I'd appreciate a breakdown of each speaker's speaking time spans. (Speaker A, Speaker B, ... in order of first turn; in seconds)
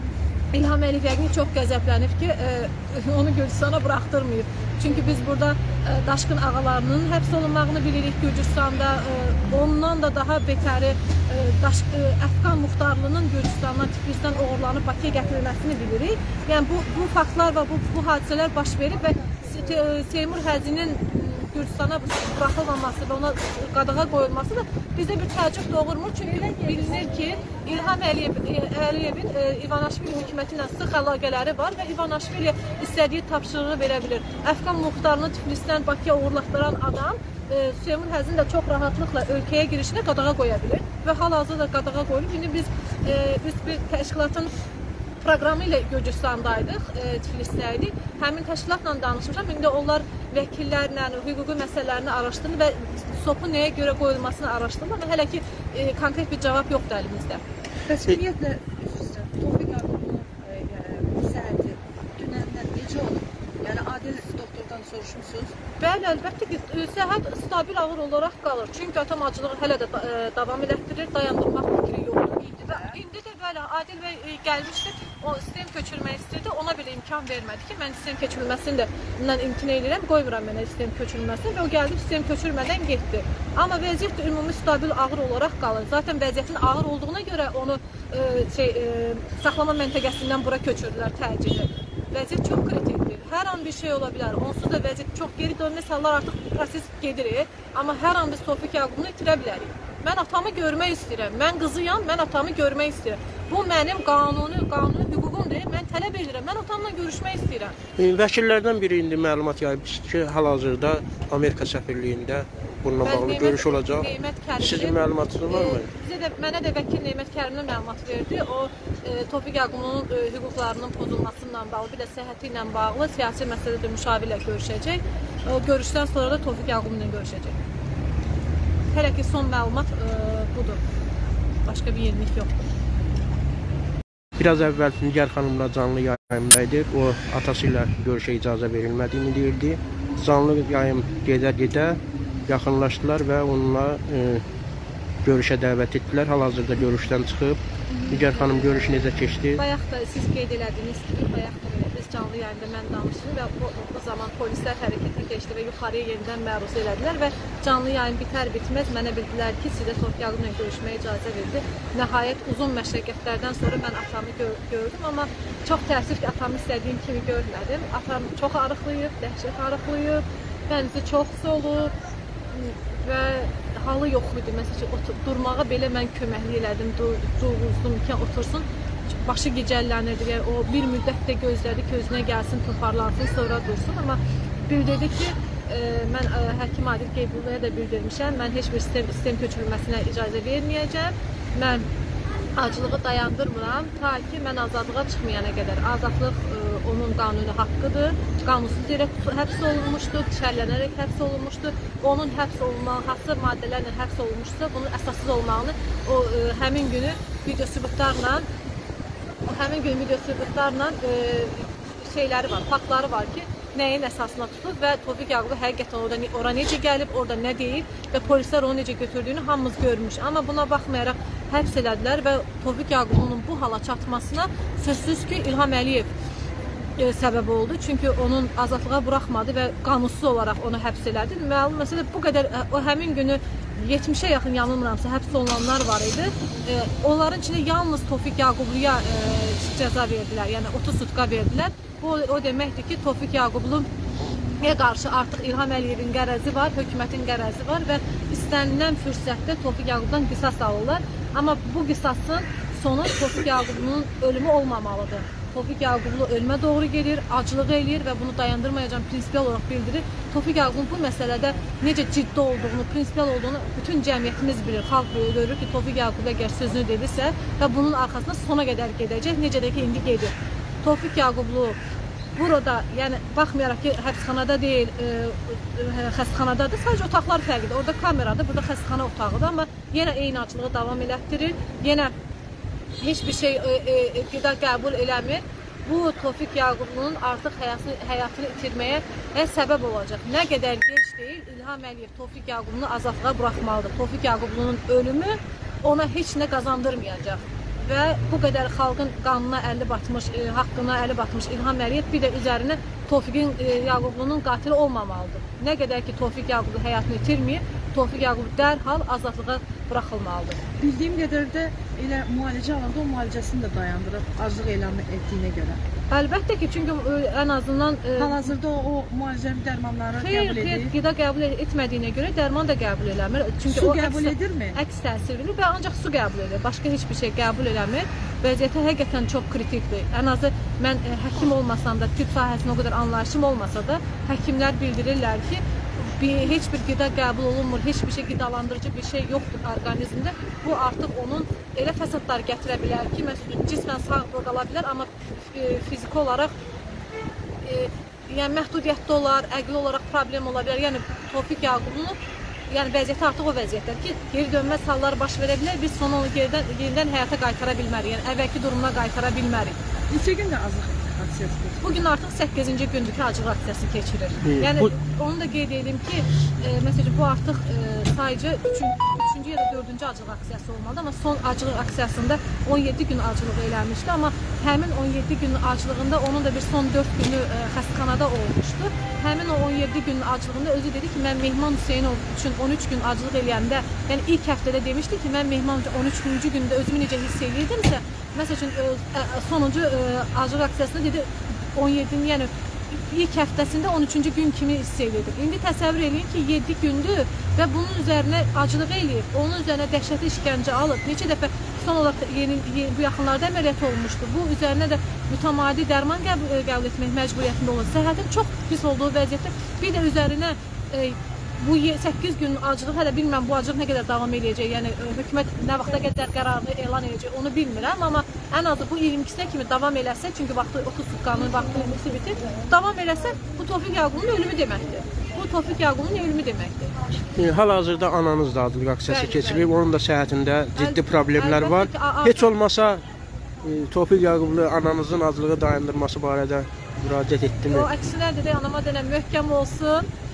Speaker A: 0.5-44.5, 45.2-57.4, 65.8-107.8, 113.0-127.6, 128.9-130.8, 131.7-132.7, 147.9-171.9, 172.5-178.6, 179.2-191.9, 192.5-208.5, 209.4-226.1, 227.0-243.9, 244.6-271.8, 272.4-282.1, 283.0-310.6, 316.1-318.5, 320.2-346.5, 347.6-352.2, 352.7-359.8, 361.8-426.9, 429.1-429.7, 430.8-432.5, 437.7-440.1
Speaker B: 57.9-65.5, 72.6-73.0, 310.8-315.8, 318.2-320.9, 323.6-324.8, 360.1-362.0
Speaker C: 108.0-115.9, 134.4-144.4, 145.2-149.6, 364.4-364.9, 427.4-433.0, 433.6-437.9